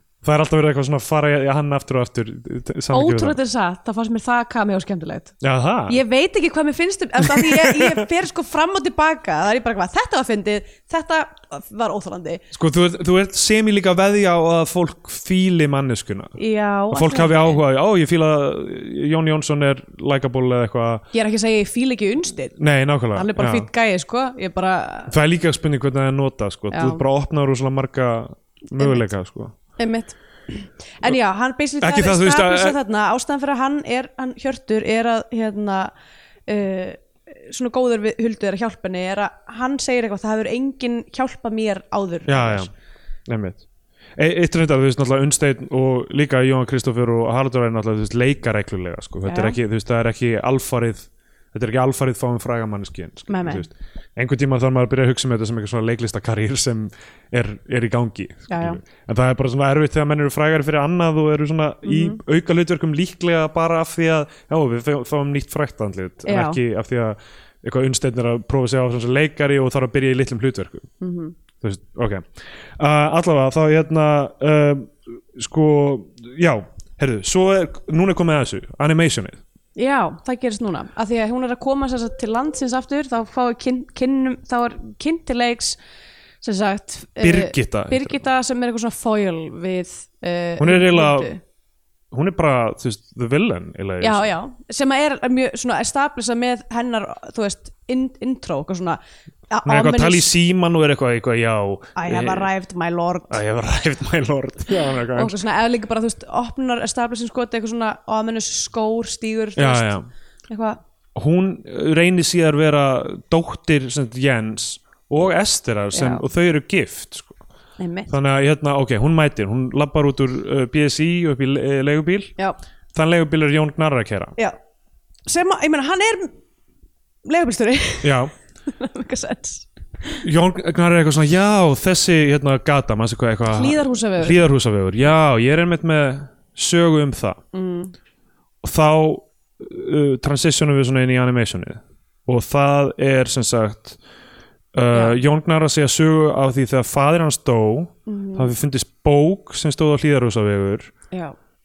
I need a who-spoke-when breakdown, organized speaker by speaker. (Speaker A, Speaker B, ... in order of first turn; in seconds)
Speaker A: 0.2-3.4, 5.4-6.0, 7.2-8.0, 12.5-16.4, 16.9-21.1, 22.6-23.7, 25.1-29.6, 31.8-32.8, 42.3-42.7, 43.3-43.6, 44.2-70.9, 71.6-79.4, 87.2-88.2, 90.6-91.3, 92.1-94.3, 99.7-102.5, 103.3-105.4, 109.6-110.1, 111.2-117.4, 118.1-122.3, 122.9-124.4, 128.0-128.3, 130.2-137.4, 138.6-144.0, 144.7-150.9
Speaker B: 2.9-5.3, 5.9-12.4, 16.4-17.6, 21.1-22.6, 23.1-25.1, 26.7-27.0, 28.8-29.0, 29.8-35.9, 36.5-42.7, 49.3-49.6, 53.3-53.7, 58.5-58.8, 61.9-62.2, 66.3-66.6, 71.0-71.3, 79.8-85.8, 86.4-91.4, 94.0-100.3, 102.0-103.4, 105.1-110.8, 115.9-116.2, 117.8-118.1, 125.3-126.3, 127.2-130.2, 133.5-134.4, 137.5-137.9, 148.1-148.5